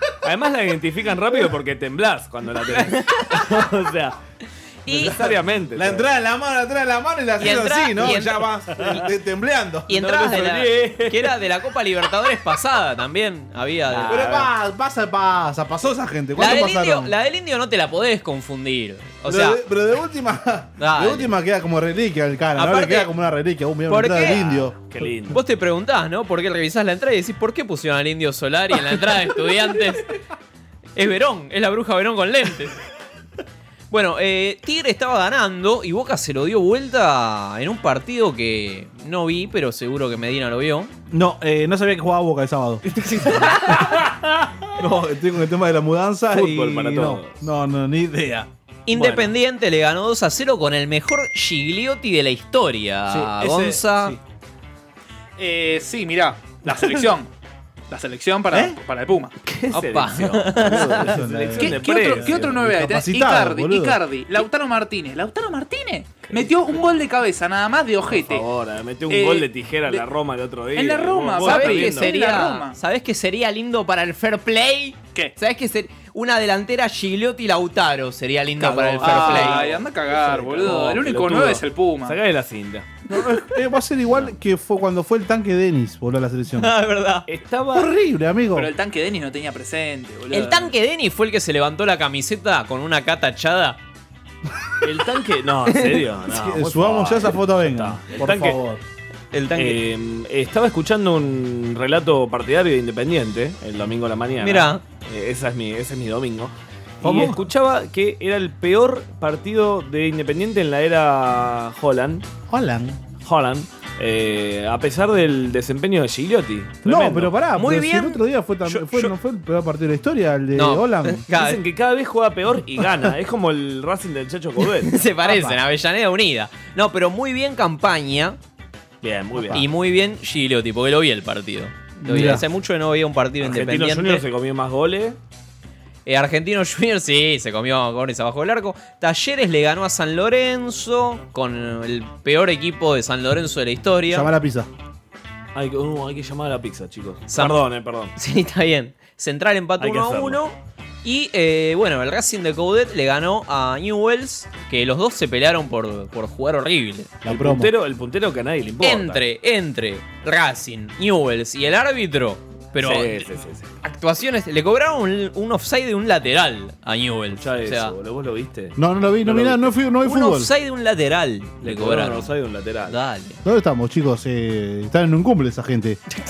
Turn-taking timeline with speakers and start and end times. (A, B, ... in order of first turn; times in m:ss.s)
0:00.2-0:04.2 A
0:02.7-0:03.3 B
0:04.9-0:05.2 B
0:04.9-0:06.1 A
0:05.8-0:10.0 C
0:07.4-0:09.0 B
0:09.9-0:14.5 B
0:09.9-0:11.4 A
0:13.9-0:14.3 A
0:14.0-0:17.1 C
0:16.4-0:19.6 B
0:19.2-0:24.8 C
0:20.8-0:21.3 B
0:22.6-0:23.1 B
0:23.9-0:24.5 B
0:24.8-0:25.4 A
0:25.3-0:30.1 B
0:31.0-0:32.8 B
0:33.9-0:40.9 B
0:41.1-0:43.7 C
0:43.3-0:44.0 A
0:44.8-0:48.5 C
0:46.3-0:47.4 A
0:48.9-0:54.2 B
0:48.9-0:49.3 A
0:53.1-0:54.2 C
0:55.4-0:57.3 D
0:57.9-0:59.3 D
0:58.5-0:58.8 C
0:59.5-1:02.6 A
0:59.7-1:01.1 B
1:00.8-1:04.0 C
1:01.6-1:08.4 D
1:06.3-1:06.9 A
1:08.1-1:12.2 A
1:09.1-1:10.0 D
1:10.7-1:12.8 D
1:11.4-1:19.7 B
1:18.7-1:22.9 A
1:19.0-1:22.2 D
1:23.1-1:26.7 C
1:26.6-1:27.3 B
1:27.3-1:27.9 A
1:27.7-1:28.7 C
1:28.5-1:30.7 D
1:30.3-1:33.8 B
1:34.8-1:38.6 A
1:36.3-1:38.8 C
1:39.3-1:39.8 B
1:39.6-1:52.3 A
1:44.4-1:44.8 B
1:47.0-1:47.4 C
1:52.5-1:53.0 C
1:53.2-1:57.3 A
1:56.8-2:01.2 C
1:57.6-1:59.1 B
2:00.6-2:01.6 B
2:01.3-2:05.0 A
2:04.9-2:08.4 B
2:05.2-2:05.6 C
2:09.0-2:09.6 A
2:09.5-2:14.2 B
2:12.0-2:12.4 C
2:13.4-2:15.2 A
2:16.1-2:24.3 B
2:24.1-2:24.7 C
2:25.6-2:28.1 A
2:27.3-2:27.5 B
2:28.2-2:37.1 B
2:29.8-2:30.4 A
2:37.2-2:37.7 C
2:37.2-2:39.2 A
2:38.8-2:43.3 B
2:42.8-2:43.7 A
2:43.8-2:47.9 B
2:47.4-2:49.7 A
2:48.8-2:50.5 C
2:50.0-2:52.3 B
2:51.6-2:53.0 A
2:52.9-2:53.4 B
2:53.4-2:56.0 C